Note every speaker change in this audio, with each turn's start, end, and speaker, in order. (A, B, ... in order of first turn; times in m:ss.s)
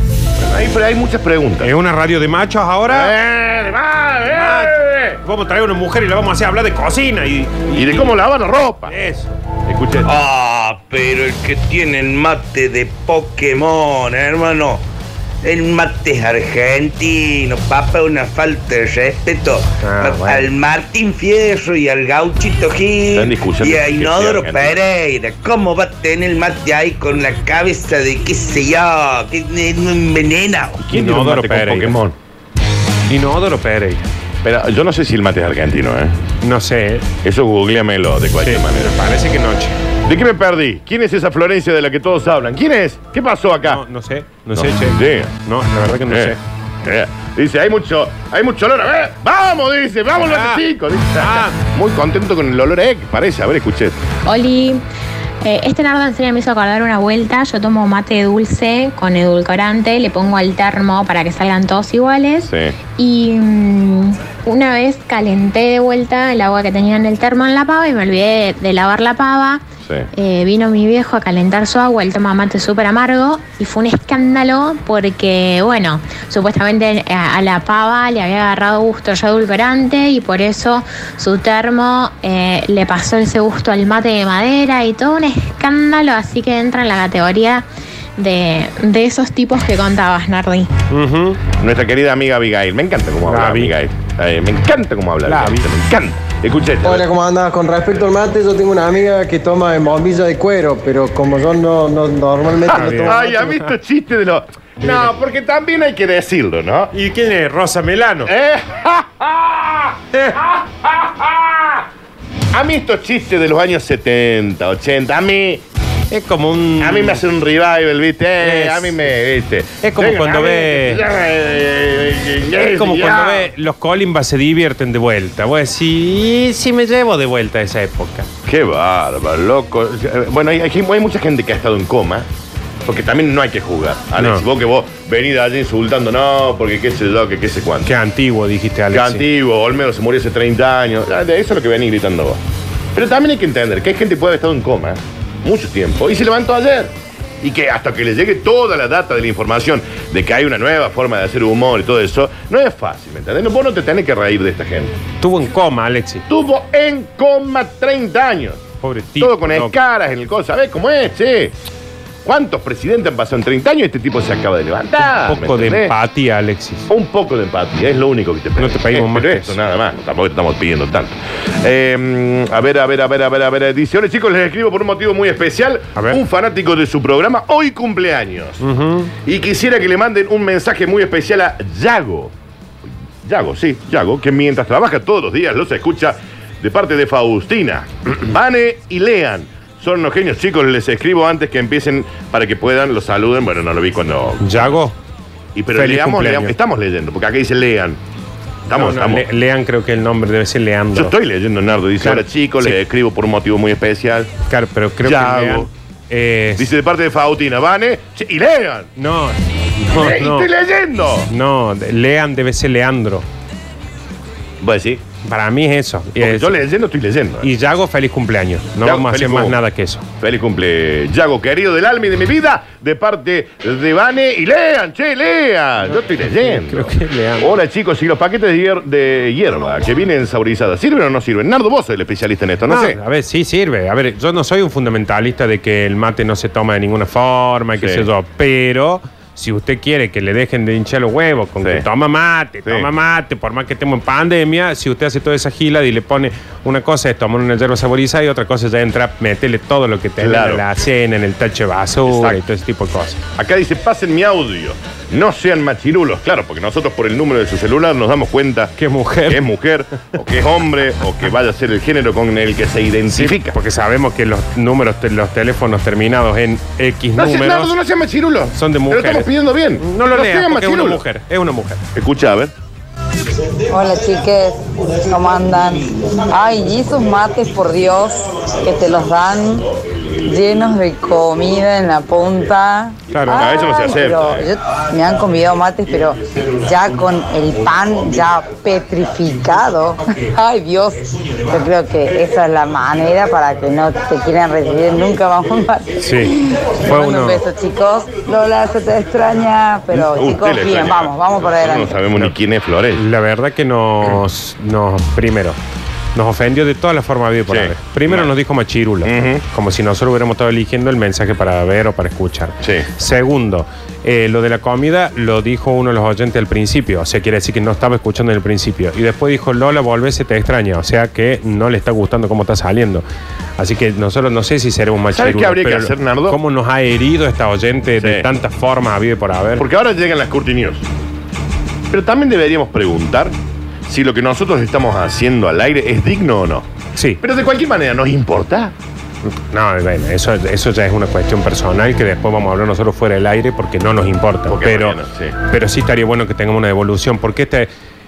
0:00.4-0:01.7 A
0:01.6-0:03.1 B
0:02.9-0:05.2 A
0:04.3-0:08.2 B
0:07.7-0:08.9 A
0:08.9-0:09.4 B
0:09.7-0:10.1 A
0:10.0-0:14.8 C
0:15.4-0:30.8 C
0:19.8-0:20.5 B
0:23.1-0:24.8 A
0:30.8-0:32.2 A
0:30.9-0:32.0 B
0:33.1-0:34.0 B
0:34.4-0:36.2 A
0:36.4-0:37.1 B
0:37.2-0:38.9 A
0:38.4-0:39.8 B
0:40.1-0:43.8 A
0:43.6-0:46.4 B
0:44.6-0:45.3 A
0:46.1-0:54.0 A
0:50.3-0:50.6 B
0:51.2-0:51.6 B
0:54.3-0:54.8 D
0:55.4-1:09.6 D
1:02.4-1:02.8 A
1:10.1-1:27.6 D
1:28.2-1:30.7 D
1:30.9-1:31.4 B
1:31.6-1:37.1 A
1:33.3-1:33.7 B
1:35.3-1:35.6 B
1:36.8-1:43.2 E
1:42.6-1:46.9 A
1:42.7-1:43.7 B
1:44.8-1:45.1 B
1:46.9-1:48.3 B
1:48.3-1:51.8 A
1:50.1-1:50.4 B
1:52.5-1:55.6 A
1:56.1-1:57.2 B
1:56.8-2:03.5 A
1:58.4-1:58.9 B
1:59.8-2:01.0 B
2:02.8-2:08.3 B
2:08.5-2:12.3 A
2:12.9-2:17.9 A
2:14.2-2:14.4 B
2:17.9-2:19.2 B
2:18.9-2:22.4 A
2:23.0-2:34.9 A
2:35.2-2:36.2 B
2:36.3-2:38.7 A
2:38.8-2:39.8 B
2:39.2-2:41.6 A
2:42.2-2:45.9 A
2:45.2-2:46.9 B
2:46.9-2:58.6 A
2:48.6-2:49.6 B
2:58.6-2:59.1 B
2:59.2-3:02.3 A
3:03.2-3:14.8 A
3:14.4-3:15.0 B
3:15.6-3:18.0 A
3:15.7-3:16.5 B
3:18.7-3:19.2 A
3:18.7-3:21.1 B
3:21.0-3:24.3 A
3:22.0-3:22.8 B
3:24.5-3:26.7 B
3:25.0-3:25.7 A
3:26.6-3:28.9 A
3:29.0-3:30.5 B
3:30.0-3:31.3 A
3:31.3-3:33.3 B
3:34.6-3:35.0 A
3:35.2-3:36.6 B
3:36.2-3:37.5 A
3:37.4-3:40.0 B
3:38.8-3:39.6 A
3:40.2-3:53.0 A
3:46.4-3:47.5 B
3:52.7-4:13.2 B
3:57.8-3:58.1 A
4:10.2-4:10.6 A
4:12.1-4:12.4 A
4:13.4-4:18.7 A
4:18.8-4:19.4 B
4:19.3-4:23.6 A
4:23.1-4:27.7 B
4:27.2-4:31.0 A
4:28.6-4:31.8 B
4:32.0-4:32.5 A
4:33.7-4:55.9 F
4:43.1-4:43.5 B
4:43.3-4:44.5 A
4:56.0-4:57.4 B
4:56.8-5:02.0 F
4:59.9-5:03.0 A
5:03.0-5:05.6 B
5:06.2-5:23.0 B
5:07.5-5:08.3 A
5:09.0-5:09.4 A
5:12.6-5:12.9 A
5:23.6-5:29.6 B
5:25.1-5:26.4 A
5:28.0-5:28.3 A
5:29.6-5:30.8 A
5:31.9-5:33.4 A
5:33.9-5:36.7 A
5:37.2-5:38.7 A
5:39.5-5:47.7 B
5:44.5-5:45.4 A